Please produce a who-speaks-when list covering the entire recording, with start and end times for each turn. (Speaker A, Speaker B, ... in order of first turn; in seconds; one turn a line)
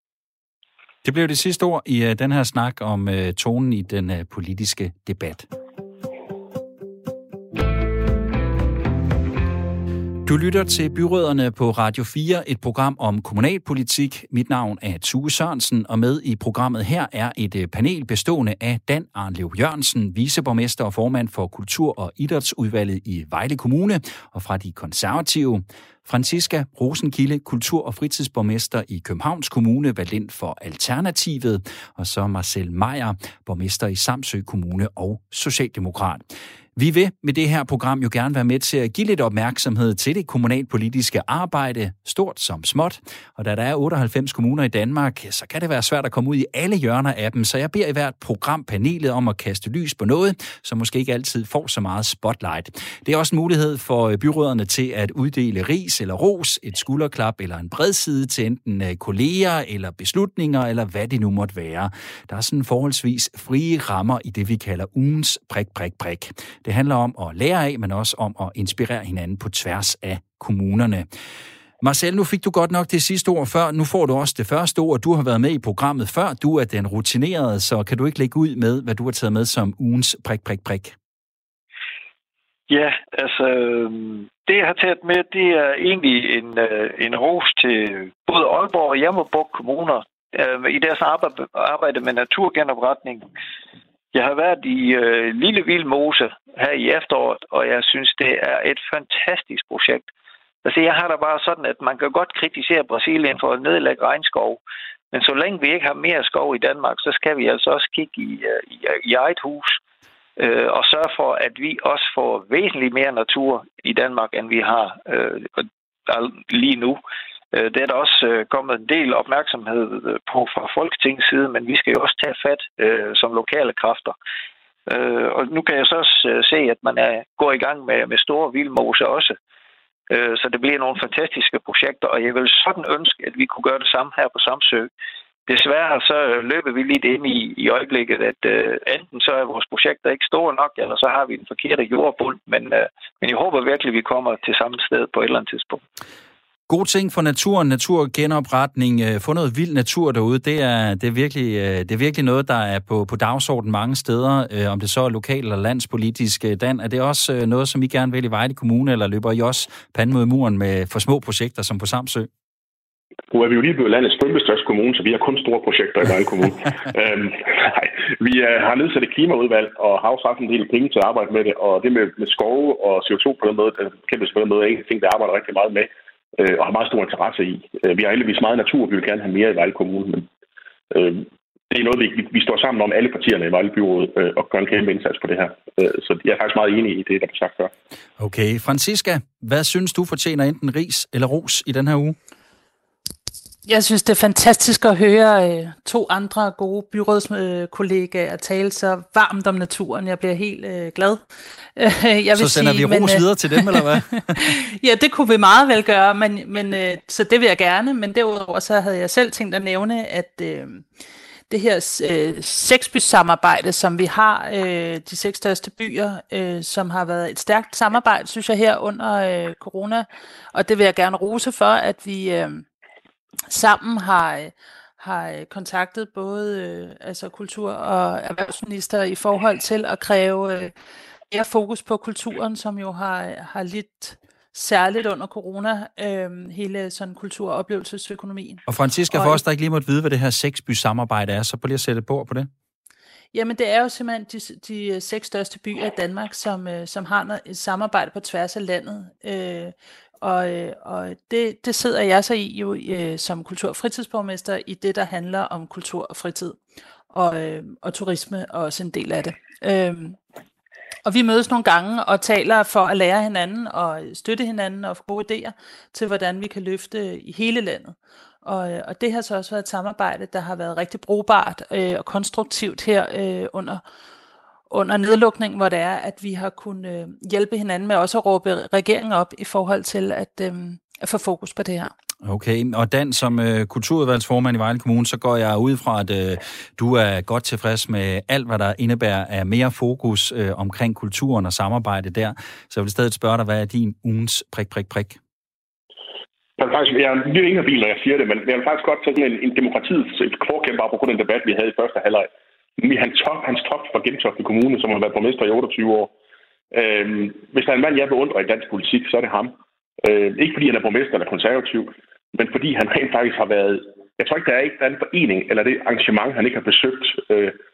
Speaker A: 1.0-5.5
Speaker A: 10.2-36.2
Speaker A: 36.8-71.1
Speaker A: 71.8-81.0
Speaker B: 82.7-93.2
Speaker B: 94.1-100.1
Speaker B: 100.6-104.6
Speaker B: 105.1-109.8
Speaker B: 110.4-117.0
Speaker B: 117.5-124.1
Speaker B: 124.9-129.4
Speaker B: 130.1-134.9
Speaker B: 135.5-145.8
Speaker A: 146.7-162.3
Speaker C: 163.3-180.3
Speaker C: 180.9-187.7
Speaker A: 188.2-192.2
Speaker D: 193.7-201.2
Speaker D: 201.8-210.8
Speaker A: 202.3-204.4
Speaker D: 211.5-222.6
Speaker D: 223.5-230.7
Speaker D: 231.3-239.4
Speaker A: 238.7-242.5
Speaker D: 243.3-256.6
Speaker D: 257.1-260.2
Speaker D: 261.0-273.8
Speaker D: 274.7-281.9
Speaker A: 282.2-295.2
Speaker C: 296.6-306.1
Speaker C: 306.7-317.5